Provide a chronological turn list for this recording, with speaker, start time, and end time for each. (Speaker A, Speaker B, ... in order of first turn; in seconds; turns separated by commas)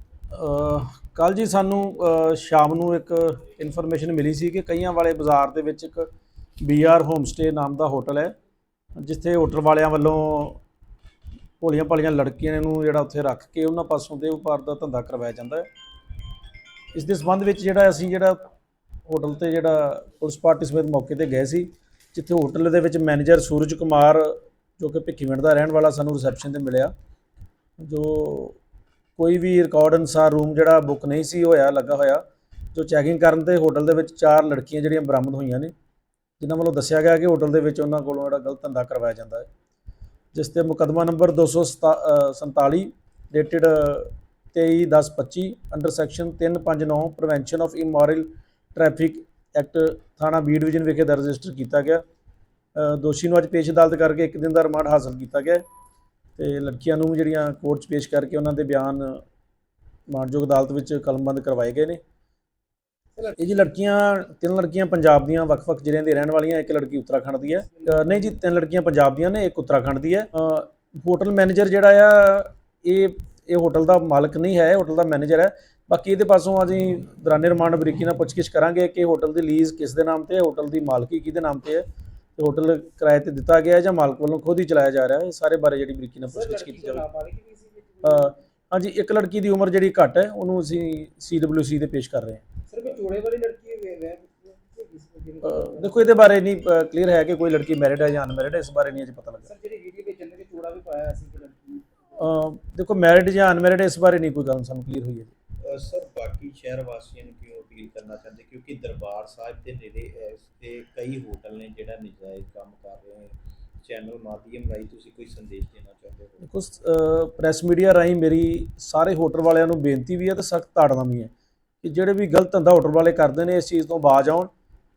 Speaker A: 0.3-6.1, Speaker A: 6.6-8.3, Speaker A: 9.0-10.6, Speaker A: 11.6-15.7, Speaker A: 16.9-18.5, Speaker A: 19.1-26.9, Speaker A: 27.8-28.6, Speaker A: 29.2-35.7, Speaker A: 36.4-39.5, Speaker A: 40.3-52.0, Speaker A: 52.7-55.6, Speaker A: 56.4-59.2, Speaker A: 60.1-62.0, Speaker A: 63.2-81.8, Speaker B: 67.8-68.1, Speaker A: 82.3-87.0, Speaker B: 86.3-88.3, Speaker A: 88.0-92.4, Speaker B: 92.7-96.0, Speaker A: 95.4-99.5, Speaker B: 99.5-101.8, Speaker A: 102.2-105.3, Speaker C: 105.6-116.4, Speaker A: 116.4-121.3, Speaker A: 121.8-124.5